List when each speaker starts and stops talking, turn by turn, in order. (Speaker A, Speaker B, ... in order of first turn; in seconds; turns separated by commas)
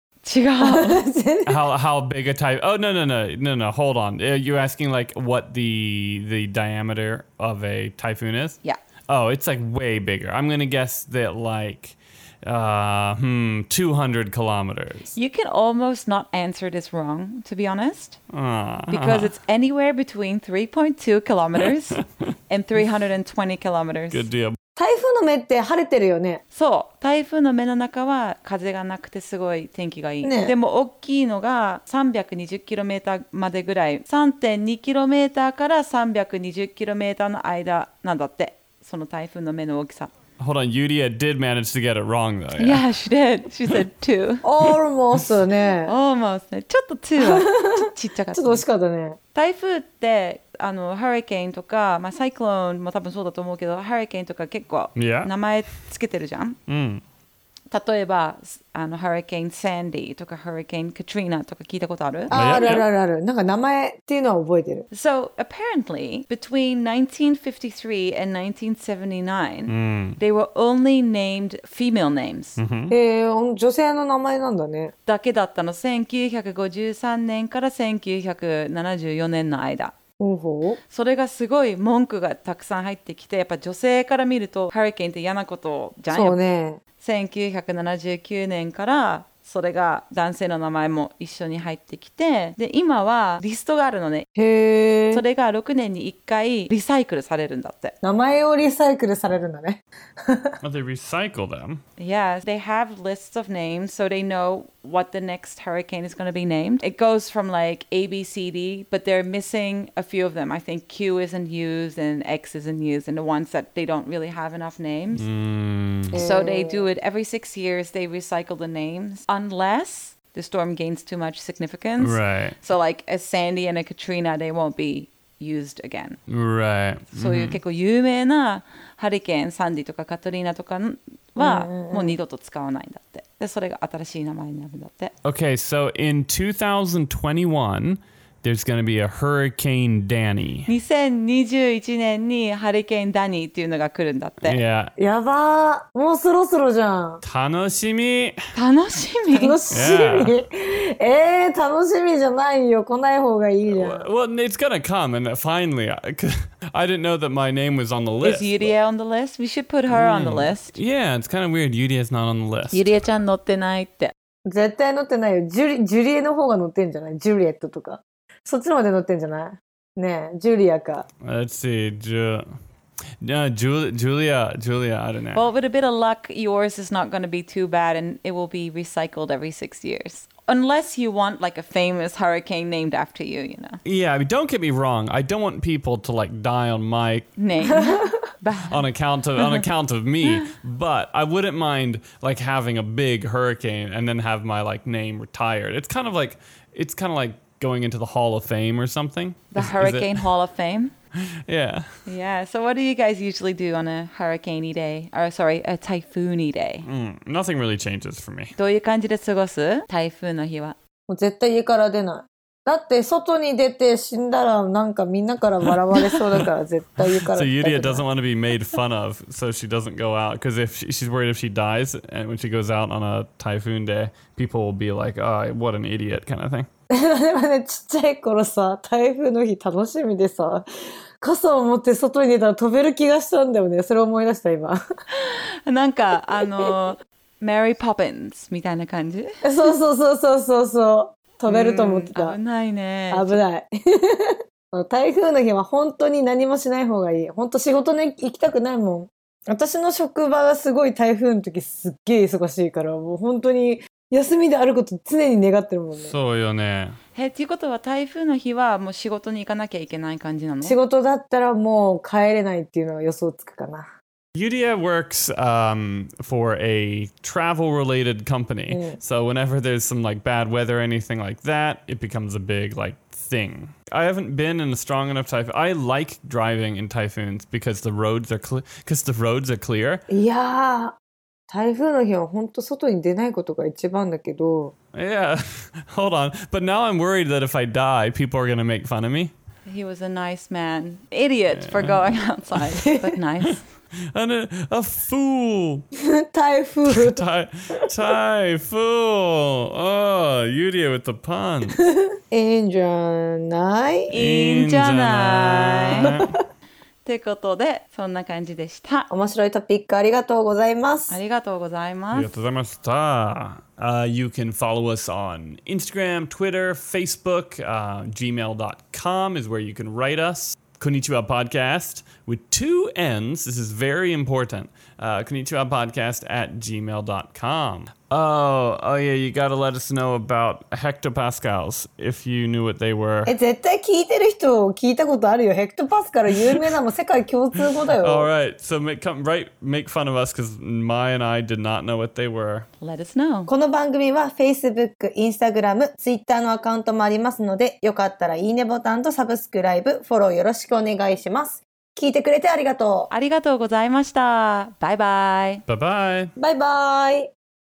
Speaker A: 0.2-1.0, Speaker B: 0.6-1.6, Speaker C: 1.4-15.1, Speaker A: 15.1-18.2, Speaker C: 18.3-19.3, Speaker A: 18.9-24.3, Speaker C: 24.1-24.6, Speaker B: 24.8-26.4, Speaker A: 26.5-40.1, Speaker B: 30.2-30.5, Speaker C: 40.4-42.8, Speaker A: 42.6-44.4, Speaker B: 44.4-45.9, Speaker A: 45.9-48.6, Speaker B: 47.2-49.2, Speaker A: 49.3-56.6, Speaker C: 55.0-55.3, Speaker C: 56.7-57.0, Speaker A: 57.7-62.3, Speaker C: 62.3-62.8, Speaker B: 62.3-64.8, Speaker A: 64.9-72.6, Speaker C: 69.7-70.2, Speaker C: 72.6-72.9, Speaker B: 72.9-74.9, Speaker A: 75.0-79.9, Speaker B: 80.2-80.8, Speaker A: 80.9-86.4, Speaker B: 86.1-86.8, Speaker A: 87.0-94.3, Speaker B: 94.3-95.2, Speaker A: 95.1-97.9, Speaker B: 98.0-100.6, Speaker C: 100.6-101.8, Speaker A: 102.0-115.3, Speaker C: 115.1-116.2, Speaker B: 116.1-116.9, Speaker A: 116.1-126.2, Speaker C: 122.0-122.6, Speaker C: 126.3-127.6, Speaker A: 127.1-135.1, Speaker B: 131.3-132.2, Speaker C: 135.2-140.7, Speaker A: 140.7-144.6, Speaker C: 144.4-144.9, Speaker B: 145.0-147.2, Speaker C: 147.2-148.4, Speaker A: 148.5-149.6, Speaker B: 149.3-154.1, Speaker C: 149.7-150.4, Speaker C: 153.7-158.7, Speaker A: 158.2-160.8, Speaker C: 159.9-162.9, Speaker A: 162.7-164.1, Speaker B: 164.5-171.0, Speaker C: 171.2-172.4, Speaker C: 173.2-175.5, Speaker A: 175.3-183.8, Speaker C: 183.8-187.3, Speaker A: 187.4-188.9, Speaker B: 187.6-188.2, Speaker C: 188.7-200.2, Speaker A: 199.5-200.9, Speaker C: 201.5-201.9, Speaker A: 202.1-206.8, Speaker C: 206.8-208.5, Speaker A: 208.6-210.8, Speaker B: 211.1-218.0, Speaker C: 215.6-216.5, Speaker C: 217.0-226.7, Speaker B: 226.9-230.7, Speaker B: 231.2-234.8, Speaker A: 235.1-239.3, Speaker B: 236.4-236.7, Speaker B: 239.4-242.4, Speaker A: 241.5-243.4, Speaker B: 243.1-256.1, Speaker C: 255.9-257.0, Speaker A: 257.1-260.8, Speaker B: 260.6-263.9, Speaker C: 264.3-280.0, Speaker B: 268.7-269.0, Speaker B: 280.1-280.9, Speaker B: 281.5-284.7, Speaker C: 284.9-289.3, Speaker A: 289.6-293.6, Speaker C: 291.5-292.2, Speaker B: 292.8-293.2, Speaker C: 294.1-295.8, Speaker B: 296.0-297.2, Speaker C: 296.9-301.8, Speaker B: 301.9-304.1, Speaker A: 304.1-306.1, Speaker C: 304.1-306.4, Speaker B: 306.0-306.4, Speaker A: 307.0-309.1, Speaker B: 309.1-311.2, Speaker A: 311.1-312.3, Speaker C: 312.1-333.3, Speaker B: 333.2-338.3, Speaker C: 337.9-342.7, Speaker A: 342.8-343.5, Speaker B: 343.5-353.1, Speaker A: 353.1-355.6, Speaker C: 355.7-356.3, Speaker B: 356.4-357.3